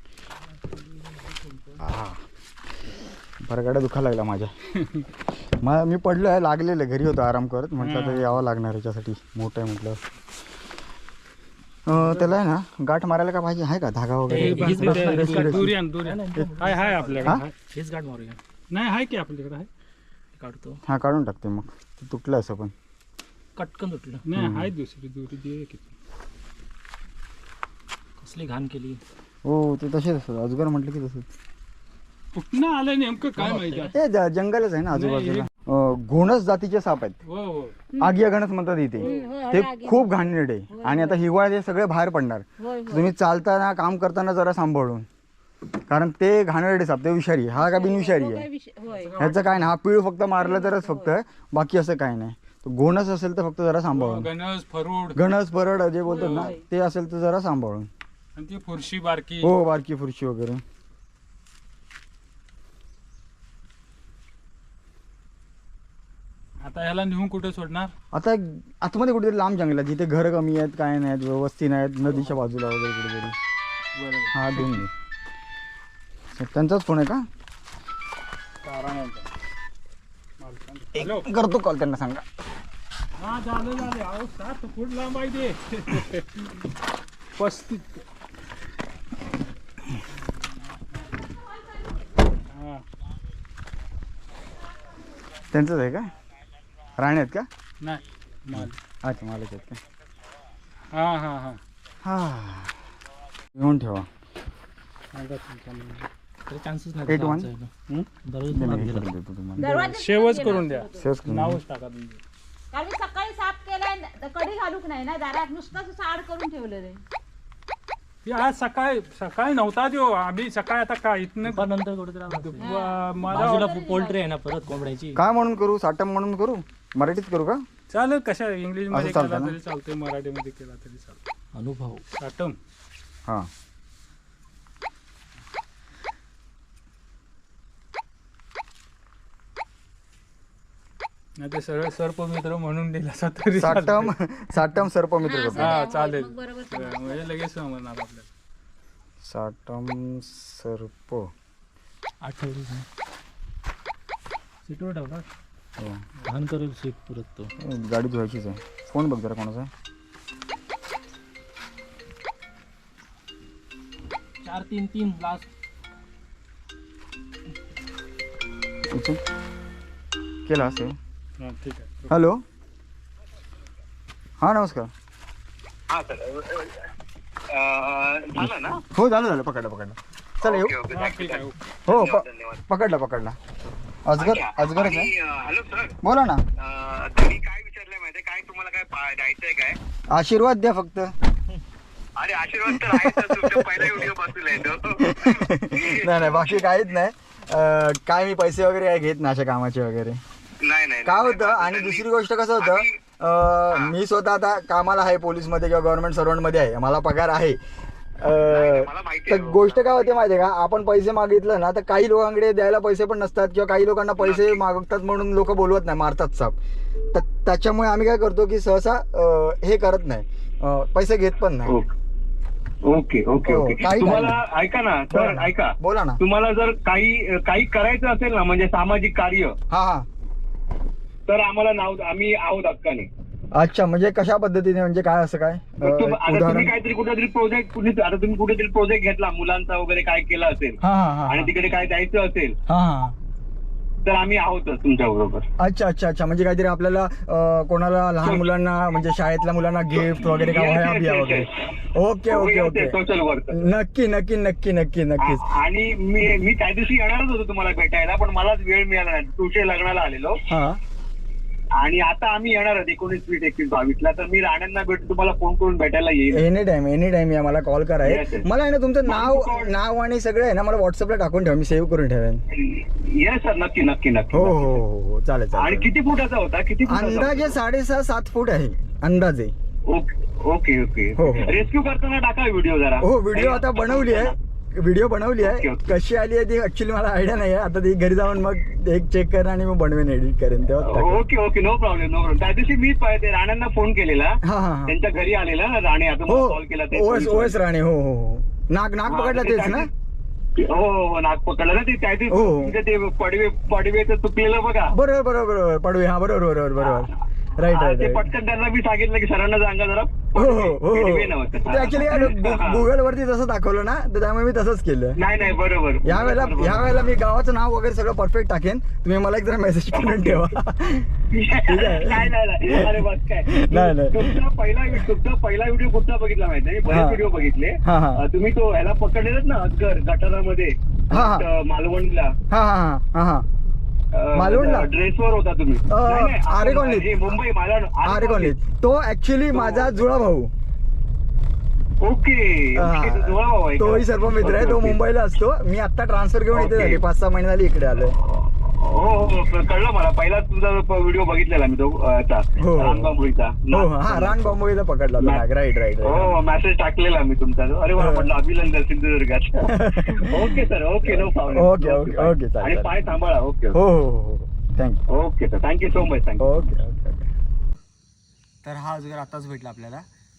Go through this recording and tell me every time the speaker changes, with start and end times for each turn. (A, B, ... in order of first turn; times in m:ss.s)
0:01.5-0:01.7 A
0:01.8-0:02.2 B
0:03.4-0:04.5 B
0:05.6-0:10.0 B
0:07.8-0:08.3 C
0:11.8-0:15.7 B
0:14.3-0:18.4 A
0:14.3-0:17.5 C
0:18.7-0:19.7 C
0:20.3-0:20.8 A
0:20.8-0:22.7 B
0:23.6-0:24.2 A
0:24.2-0:25.9 C
0:24.4-0:24.7 B
0:28.2-0:29.0 A
0:29.4-0:31.3 B
0:32.3-0:33.9 C
0:33.4-0:33.9 A
0:33.9-0:37.2 B
0:34.9-0:35.5 C
0:37.2-0:37.8 C
0:38.0-0:45.0 B
0:39.0-0:39.3 C
0:39.0-0:40.1 D
0:40.7-0:41.2 D
0:42.6-0:43.1 D
0:45.9-0:48.5 B
0:47.6-0:49.1 D
0:48.9-0:49.7 C
0:49.2-0:54.3 B
0:50.4-0:51.1 D
0:53.9-0:55.2 C
0:55.1-0:57.9 B
0:56.1-0:56.6 D
0:56.1-0:56.5 C
0:58.4-0:59.5 C
0:59.4-1:00.6 B
1:06.6-1:07.9 C
1:08.1-1:13.4 B
1:14.0-1:14.7 C
1:14.3-1:14.9 B
1:16.4-1:17.3 B
1:18.6-1:19.2 C
1:20.4-1:21.2 C
1:20.9-1:22.2 B
1:23.2-1:26.6 C
1:27.4-1:28.0 C
1:31.2-1:31.7 D
1:32.5-1:32.8 C
1:35.5-1:36.1 B
1:37.0-1:37.5 B
1:37.8-1:38.8 C
1:38.5-1:39.8 B
1:40.9-1:41.6 C
1:42.0-1:42.8 B
1:43.5-1:44.1 B
1:45.1-1:46.1 C
1:46.4-1:47.7 A
1:47.0-1:47.5 B
1:48.2-1:49.1 A
1:48.5-1:49.9 B
1:49.6-1:51.1 D
1:49.6-1:52.2 C
1:50.9-1:51.6 B
1:52.7-1:57.0 D
1:58.2-2:01.7 C
2:01.4-2:05.2 A
2:02.3-2:03.9 C
2:02.6-2:04.2 D
2:05.1-2:07.6 B
2:07.9-2:11.2 C
2:08.9-2:09.6 B
2:11.5-2:12.0 A
2:12.2-2:12.6 C
2:21.4-2:24.1 C
2:23.6-2:25.8 B
2:25.2-2:27.2 D
2:25.5-2:28.3 C
2:29.2-2:31.3 B
2:32.2-2:32.8 A
2:34.6-2:35.2 A
2:35.8-2:36.0 B
2:36.2-2:37.5 A
2:37.6-2:39.7 B
2:44.4-2:45.5 A
2:48.9-2:49.2 B
2:50.5-2:51.0 B
2:51.4-2:52.1 C
2:52.1-2:52.4 B
2:54.4-2:54.9 B
2:55.9-2:56.8 E
2:57.5-2:58.8 E
2:58.4-3:00.7 B
3:00.4-3:02.6 E
3:00.9-3:01.5 C
3:01.9-3:03.4 B
3:04.0-3:05.1 B
3:04.2-3:06.0 E
3:06.0-3:06.4 B
3:06.6-3:09.8 E
3:10.1-3:11.1 B
3:12.2-3:16.6 E
3:12.7-3:14.1 B
3:15.0-3:20.2 B
3:20.6-3:22.0 E
3:21.0-3:27.6 B
3:22.6-3:23.0 E
3:28.2-3:36.6 B
3:28.3-3:30.2 E
3:34.2-3:34.6 E
3:37.1-3:41.8 B
3:42.8-3:49.6 E
3:43.4-3:44.4 B
3:45.1-3:46.2 B
3:49.7-3:50.1 B
3:51.3-3:53.1 E
3:53.5-3:56.7 B
3:55.8-4:02.5 E
4:00.8-4:01.5 B
4:02.7-4:03.1 B
4:04.0-4:05.4 E
4:05.6-4:13.0 B
4:09.9-4:11.6 E
4:12.3-4:13.6 E
4:13.5-4:15.4 B
4:15.2-4:20.4 E
4:20.5-4:20.8 B
4:21.8-4:26.4 E
4:26.3-4:32.4 B
4:28.0-4:28.4 E
4:29.0-4:29.7 E
4:32.5-4:34.8 E
4:34.3-4:35.9 B
4:35.5-4:37.6 E
4:36.8-4:39.5 B
4:39.9-4:44.4 E
4:41.2-4:41.6 B
4:43.0-4:51.2 B
4:45.4-4:45.8 E
4:50.8-4:57.5 E
4:54.4-4:54.9 B
4:56.3-4:59.9 B
4:59.1-4:59.9 E
5:00.6-5:04.9 E
5:02.3-5:02.8 B
5:04.9-5:08.3 B
5:06.8-5:07.0 E
5:07.7-5:12.8 E
5:10.3-5:15.2 B
5:15.2-5:17.1 E
5:16.0-5:21.1 B
5:19.9-5:20.4 E
5:21.3-5:32.3 E
5:21.7-5:24.4 B
5:26.9-5:27.2 B
5:27.8-5:28.2 B
5:31.1-5:31.4 B
5:32.5-5:33.4 B
5:34.1-5:38.6 E
5:34.4-5:34.9 B
5:35.9-5:37.4 B
5:38.0-5:40.5 B
5:39.5-5:39.9 E
5:42.0-5:45.0 E
5:42.8-5:48.1 B
5:46.5-5:47.0 E
5:48.2-5:54.6 E
5:52.6-5:53.1 B
5:53.7-5:56.4 B
5:56.0-6:03.8 E
5:58.0-5:58.3 B
5:59.7-6:03.0 B
6:03.7-6:05.0 B
6:05.1-6:06.6 E
6:06.4-6:07.3 B
6:08.6-6:10.0 B